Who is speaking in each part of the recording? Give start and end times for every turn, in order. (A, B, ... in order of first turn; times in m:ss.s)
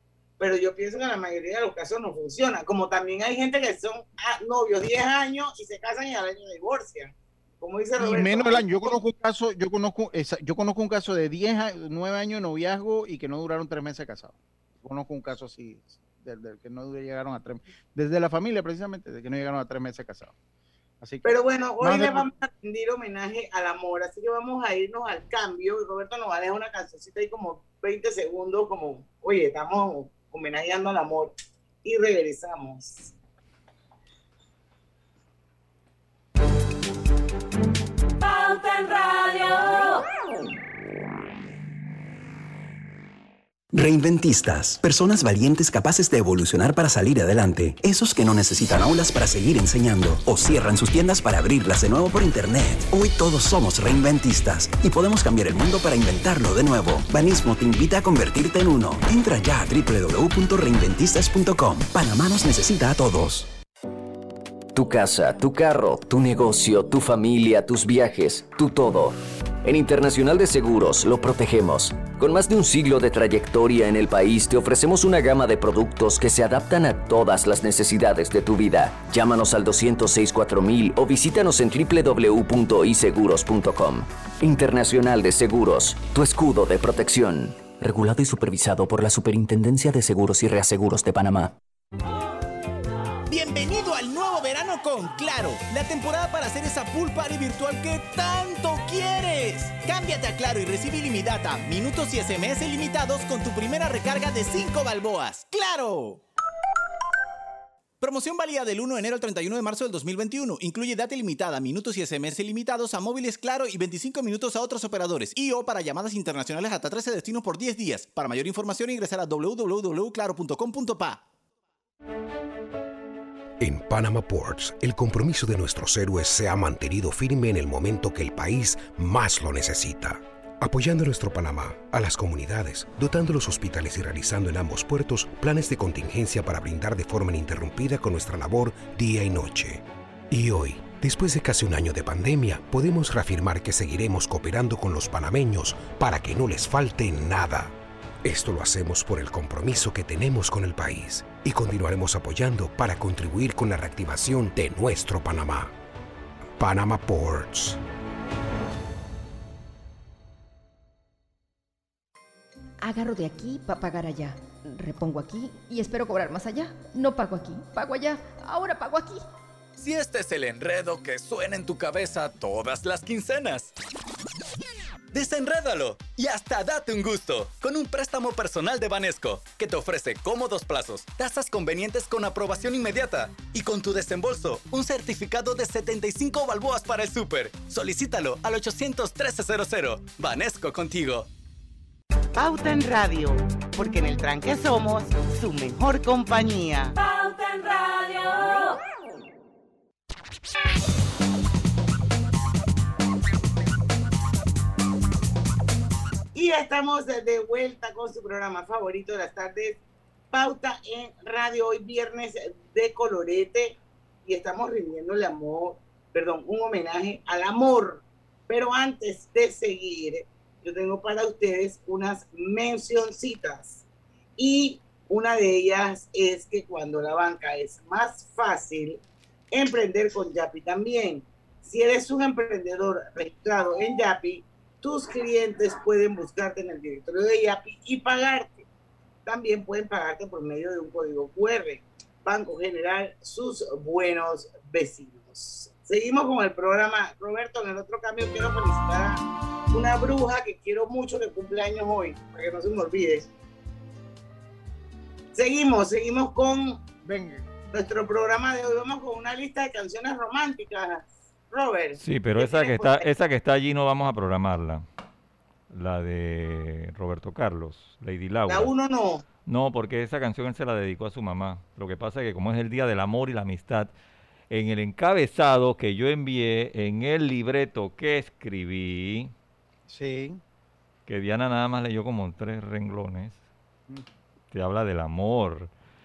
0:00.4-0:08.9 A
0:08.0-0:20.3 B
0:21.0-0:22.3 B
0:21.2-0:33.1 A
0:43.7-1:03.5 C
1:04.7-1:31.5 D
1:33.3-1:46.2 E
1:48.0-2:01.2 E
2:03.6-2:35.7 F
2:36.6-2:37.8 F
2:42.8-2:49.2 G
2:49.8-2:53.7 H
2:55.1-3:11.3 H
3:12.3-3:16.9 I
3:26.3-3:29.8 A
3:30.3-3:43.8 A
3:44.4-3:49.0 A
3:49.5-3:58.6 A
3:59.2-4:13.3 A
4:15.3-4:16.8 A
4:17.0-4:17.4 B
4:17.7-4:23.1 A
4:22.0-4:24.8 J
4:25.7-4:28.7 J
4:28.5-4:29.2 A
4:29.4-4:33.9 J
4:34.5-4:39.3 J
4:39.9-4:40.4 B
4:41.1-4:43.4 J
4:44.5-4:45.7 J